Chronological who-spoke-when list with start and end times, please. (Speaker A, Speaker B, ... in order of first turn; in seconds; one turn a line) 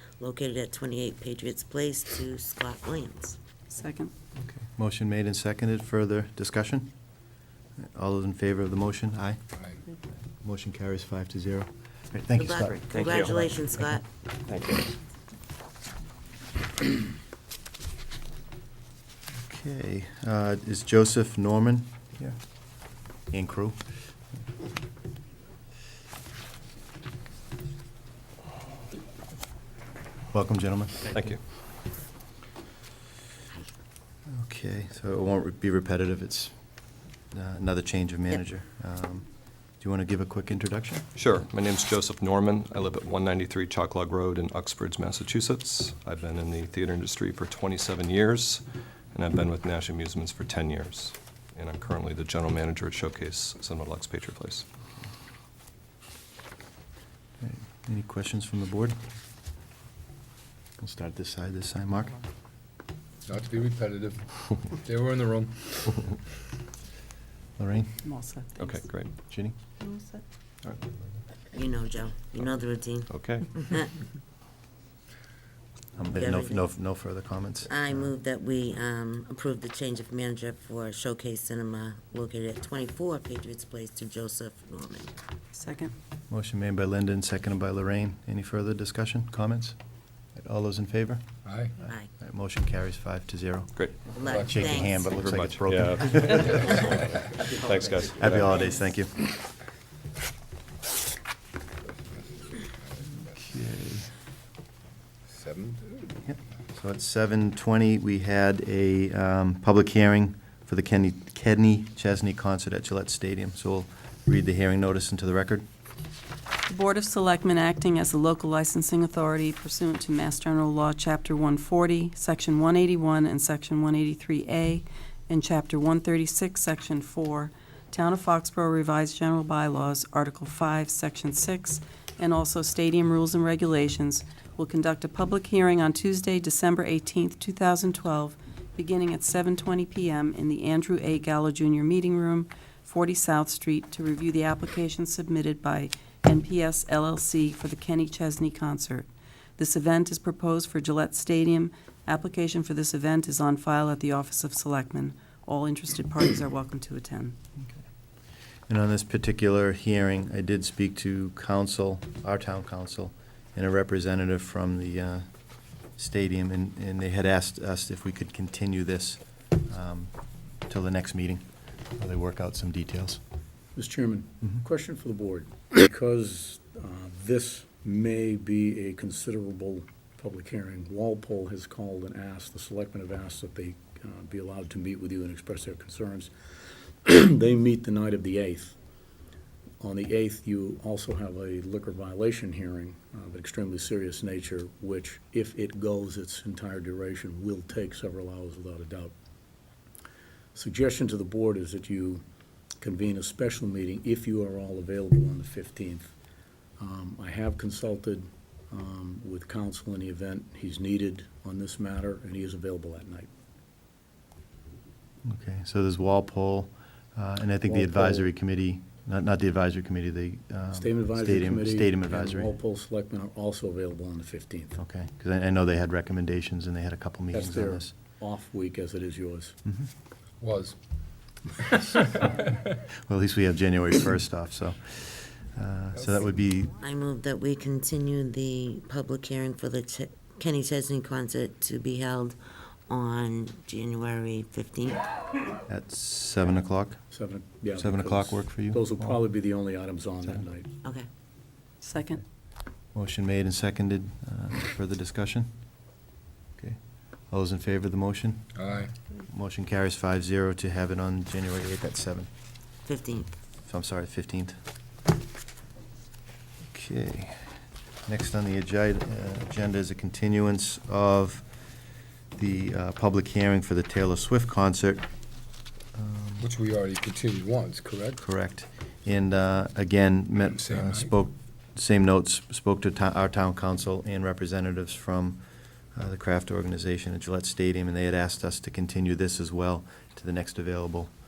Speaker A: 0.2-3.4
Speaker B: 3.7-4.1
Speaker C: 4.4-6.9
Speaker C: 7.8-9.4
Speaker C: 10.4-13.7
Speaker A: 12.3-14.0
Speaker D: 12.9-13.3
Speaker D: 14.5-14.8
Speaker C: 19.5-22.4
Speaker C: 23.3-23.8
Speaker C: 30.3-31.2
Speaker D: 31.1-31.4
Speaker C: 34.3-36.5
Speaker C: 37.3-39.3
Speaker C: 39.8-41.1
Speaker D: 41.1-54.6
Speaker C: 57.4-59.0
Speaker C: 60.8-62.2
Speaker E: 63.3-66.2
Speaker C: 67.6-67.9
Speaker B: 68.0-68.8
Speaker D: 68.6-69.1
Speaker C: 69.3-69.5
Speaker B: 69.8-70.2
Speaker C: 70.6-71.0
Speaker A: 71.5-73.9
Speaker D: 73.1-73.7
Speaker C: 76.0-78.1
Speaker A: 76.1-76.7
Speaker A: 77.7-85.1
Speaker B: 85.5-85.9
Speaker C: 86.3-89.8
Speaker C: 90.3-91.2
Speaker E: 91.4-91.7
Speaker C: 92.2-96.7
Speaker A: 94.1-95.1
Speaker E: 94.3-94.6
Speaker D: 95.0-98.6
Speaker C: 98.2-99.1
Speaker E: 102.5-103.3
Speaker C: 103.4-104.1
Speaker E: 105.3-106.1
Speaker C: 106.2-115.6
Speaker B: 116.7-157.3
Speaker C: 158.7-165.3
Speaker C: 165.9-170.1
Speaker C: 170.7-171.4
Speaker C: 172.0-173.2
Speaker F: 173.7-186.3
Speaker F: 187.0-188.7
Speaker F: 189.8-199.1
Speaker F: 200.5-202.2
Speaker F: 202.8-206.1
Speaker F: 206.8-213.3
Speaker C: 215.2-222.5
Speaker F: 217.6-218.3
Speaker F: 220.7-224.8
Speaker C: 224.8-227.9
Speaker F: 227.3-229.6
Speaker E: 230.4-230.8
Speaker C: 233.1-236.7
Speaker A: 236.8-245.1
Speaker C: 245.7-247.0
Speaker F: 247.1-250.7
Speaker C: 247.8-249.2
Speaker B: 251.8-252.2
Speaker C: 252.9-255.5
Speaker C: 257.3-262.3
Speaker E: 258.6-258.9
Speaker A: 262.9-263.3
Speaker C: 263.7-264.5
Speaker C: 266.7-267.4
Speaker C: 268.1-271.5
Speaker C: 272.4-275.1
Speaker C: 275.9-276.5
Speaker E: 276.4-278.2
Speaker C: 278.2-285.4
Speaker E: 280.6-281.1
Speaker C: 285.9-291.1